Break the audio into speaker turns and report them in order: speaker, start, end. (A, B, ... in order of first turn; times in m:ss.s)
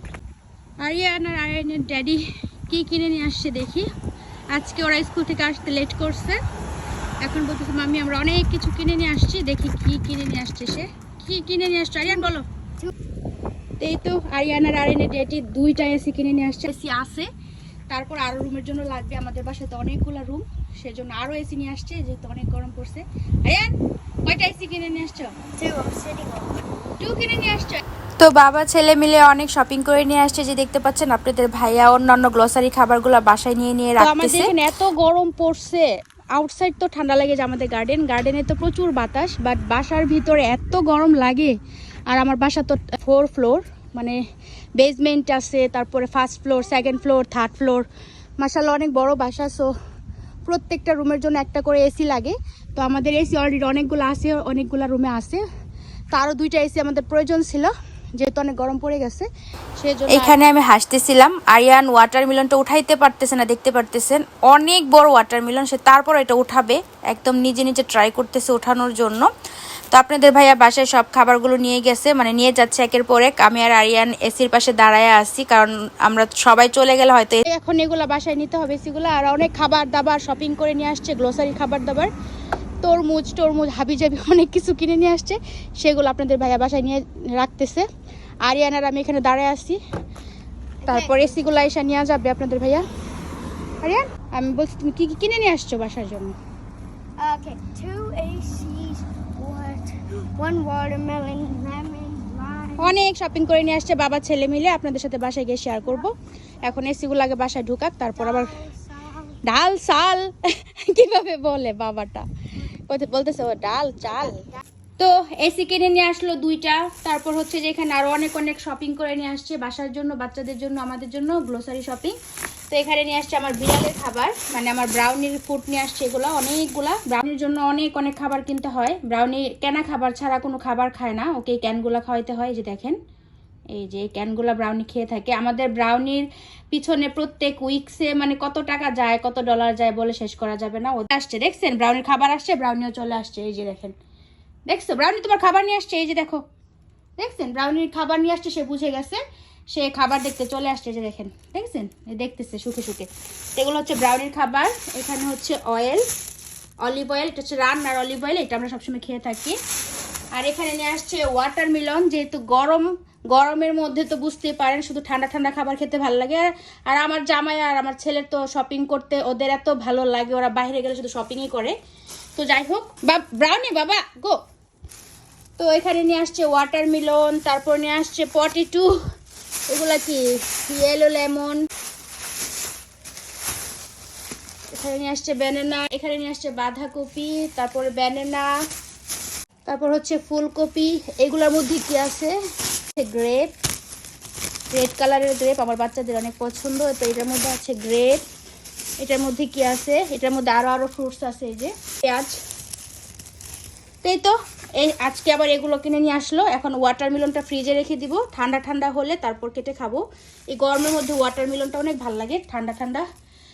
0:00.8-0:03.8 A
0:04.5-0:06.4 A
0:07.2-0:12.4 A
0:13.8-0:17.3 A
0:17.9-0:23.7 A
0:24.2-0:25.3 A
0:25.6-0:26.6 B
0:27.0-0:27.8 A
0:28.2-0:34.5 C
0:34.0-0:41.5 A
0:42.1-0:44.2 A
0:44.8-0:47.8 A
0:48.4-0:49.7 A
0:50.5-0:55.4 A
0:56.1-0:59.3 A
0:59.8-1:00.4 A
1:00.1-1:09.3 C
1:09.9-1:17.4 C
1:17.4-1:22.1 A
1:22.8-1:27.8 A
1:28.4-1:29.8 A
1:30.8-1:31.4 B
1:30.9-1:32.8 A
1:33.8-1:36.3 A
1:37.2-1:42.9 B
1:42.8-1:48.6 A
1:48.3-1:49.4 B
1:49.4-1:50.3 A
1:50.8-1:54.4 A
1:55.0-2:02.1 A
2:02.7-2:13.0 A
2:13.7-2:23.9 A
2:24.7-2:26.4 A
2:27.2-2:29.2 A
2:29.7-2:36.0 A
2:36.8-2:39.6 A
2:40.4-2:51.8 A
2:52.4-2:54.4 A
2:55.6-2:58.9 A
2:59.7-3:01.6 A
3:04.7-3:08.5 A
3:09.6-3:12.3 A
3:13.0-3:13.5 A
3:14.7-3:18.2 A
3:19.0-3:22.4 A
3:24.0-3:33.0 A